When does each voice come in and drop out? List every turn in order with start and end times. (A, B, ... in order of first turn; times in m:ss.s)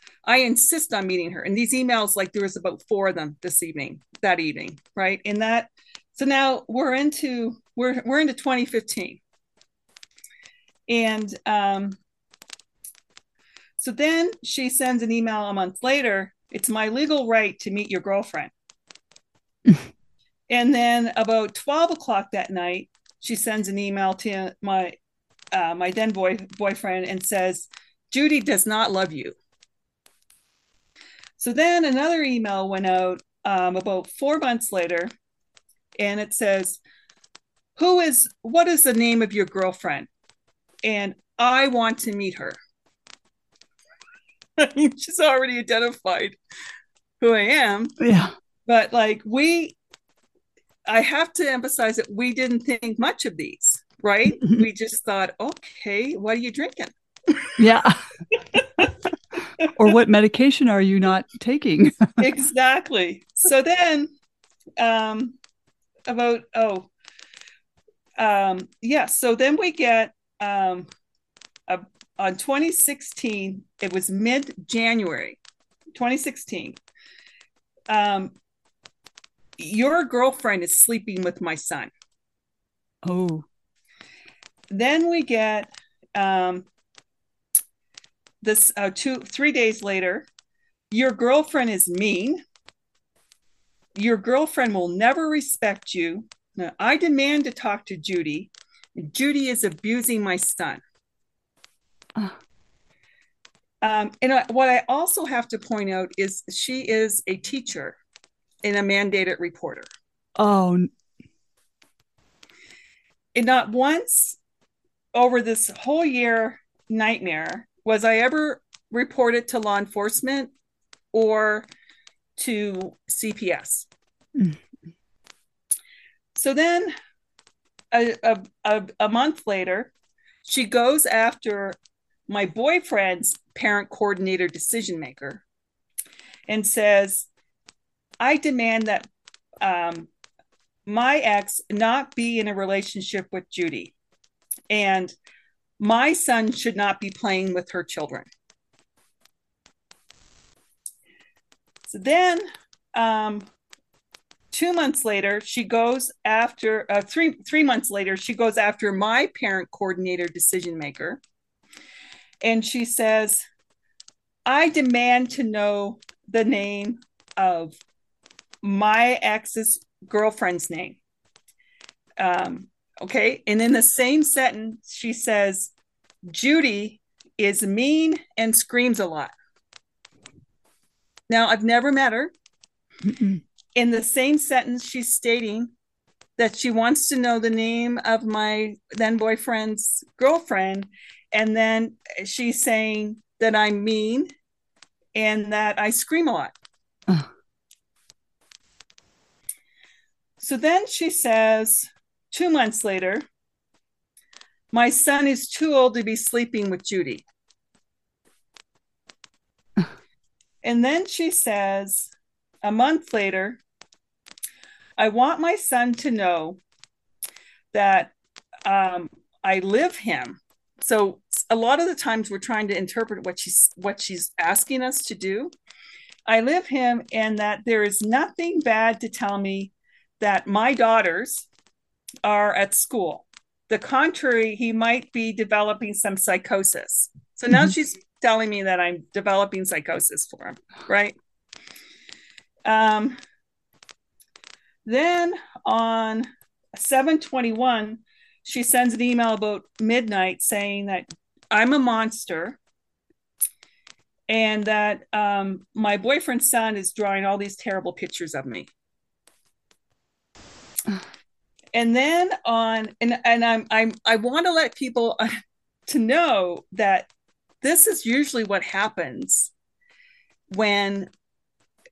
0:00.2-0:09.2 A
0:10.9-0:12.0 A
0:13.8-0:18.5 A
0:20.5-0:24.9 A
0:25.5-0:29.4 A
0:31.4-0:35.1 A
0:36.0-0:36.8 A
0:37.8-0:40.1 A
0:40.8-0:42.6 A
0:44.6-0:46.4 A
0:47.2-0:48.0 A
0:48.0-0:48.3 B
0:48.6-0:49.8 A
0:50.9-0:57.6 A
0:57.6-0:58.0 B
0:58.5-0:58.8 A
0:59.6-1:02.2 B
1:02.2-1:04.1 A
1:04.8-1:05.4 A
1:06.1-1:06.9 A
1:08.2-1:10.9 A
1:11.7-1:15.4 A
1:15.9-1:16.8 A
1:17.9-1:18.3 A
1:19.6-1:21.9 A
1:23.0-1:23.4 B
1:24.7-1:26.6 A
1:28.4-1:30.3 A
1:30.9-1:32.4 A
1:34.0-1:40.8 A
1:43.8-1:48.0 A
1:48.6-1:49.9 A
1:50.4-1:50.9 B
1:53.3-1:54.4 A
1:55.1-2:00.5 A
2:01.1-2:01.7 A
2:02.4-2:03.9 A
2:04.3-2:04.6 B
2:06.3-2:06.9 A
2:07.9-2:09.9 A
2:10.4-2:15.4 A
2:16.5-2:17.3 A
2:18.2-2:19.1 A
2:19.6-2:20.1 A
2:20.8-2:23.9 A
2:24.7-2:25.1 A
2:25.8-2:28.3 A
2:31.9-2:33.5 A
2:34.5-2:41.2 A
2:42.4-2:43.4 A
2:44.4-2:47.8 A
2:48.6-2:51.0 A
2:52.2-2:55.7 A
2:56.2-2:59.3 A
3:01.3-3:02.3 A
3:03.0-3:03.4 B
3:03.7-3:05.7 A
3:06.4-3:14.3 A
3:15.1-3:16.5 A
3:20.4-3:23.2 A
3:24.7-3:27.2 A
3:30.6-3:32.1 A
3:32.6-3:33.6 A
3:35.0-3:36.6 A
3:37.7-3:38.1 A
3:38.6-3:45.5 A
3:46.3-3:51.5 A
3:52.2-4:01.1 A
4:02.6-4:03.2 A
4:04.8-4:12.6 A
4:14.3-4:18.7 A
4:21.7-4:25.3 A
4:25.9-4:27.1 A
4:27.6-4:29.5 A
4:30.5-4:31.1 A